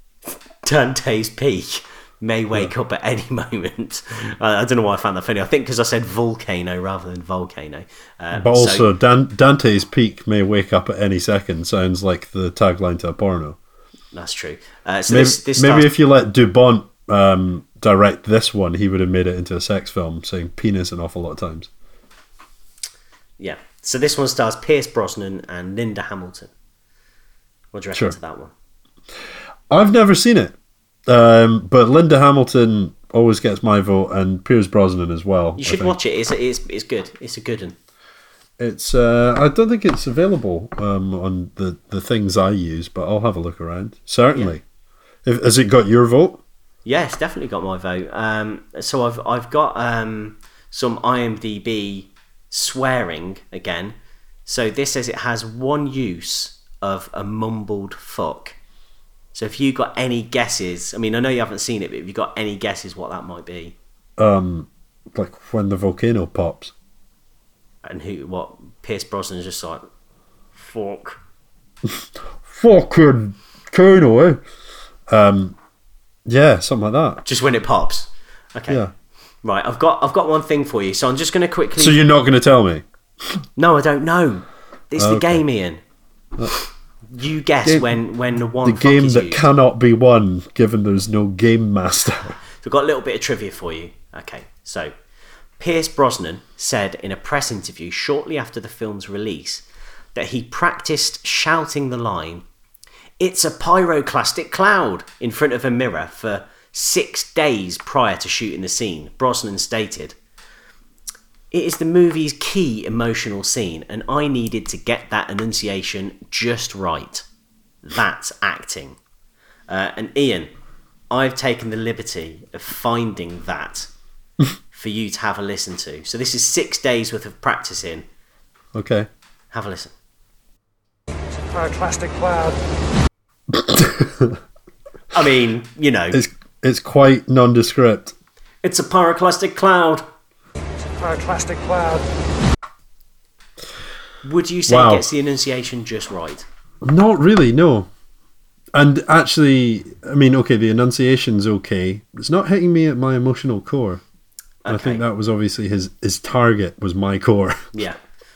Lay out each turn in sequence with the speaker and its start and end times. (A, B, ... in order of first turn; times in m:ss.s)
0:00.3-0:08.9 A
0:08.3-0:13.6 B
0:14.1-0:15.9 A
0:15.1-0:21.7 B
0:23.4-0:26.5 A
0:27.7-0:28.5 A
0:29.7-0:30.6 B
0:31.1-0:36.0 B
0:35.6-0:37.8 A
0:38.6-0:44.6 B
0:45.2-0:46.4 B
0:46.8-0:54.0 A
0:54.5-0:58.6 A
0:59.3-1:03.8 A
1:04.2-1:06.7 B
1:07.8-1:09.8 A
1:10.6-1:11.2 A
1:11.8-1:14.4 B
1:15.1-1:15.6 B
1:16.3-1:17.2 B
1:17.2-1:18.8 A
1:19.4-1:22.0 A
1:21.8-1:22.8 B
1:23.6-1:25.8 A
1:25.0-1:25.4 B
1:27.1-1:29.5 A
1:27.6-1:28.0 B
1:28.6-1:32.4 B
1:32.5-1:34.9 A
1:35.6-1:42.4 A
1:43.2-1:50.2 A
1:51.5-1:57.2 A
1:57.8-1:59.0 A
1:59.7-2:00.5 A
2:01.1-2:03.9 A
2:04.7-2:08.1 A
2:08.8-2:09.1 B
2:09.5-2:09.9 A
2:11.5-2:12.6 C
2:13.5-2:14.4 B
2:15.1-2:16.2 A
2:16.1-2:18.2 B
2:18.6-2:20.0 A
2:21.0-2:22.1 C
2:24.2-2:26.4 A
2:24.7-2:25.1 B
2:26.8-2:27.9 B
2:28.8-2:34.0 B
2:34.6-2:35.0 A
2:34.7-2:37.7 B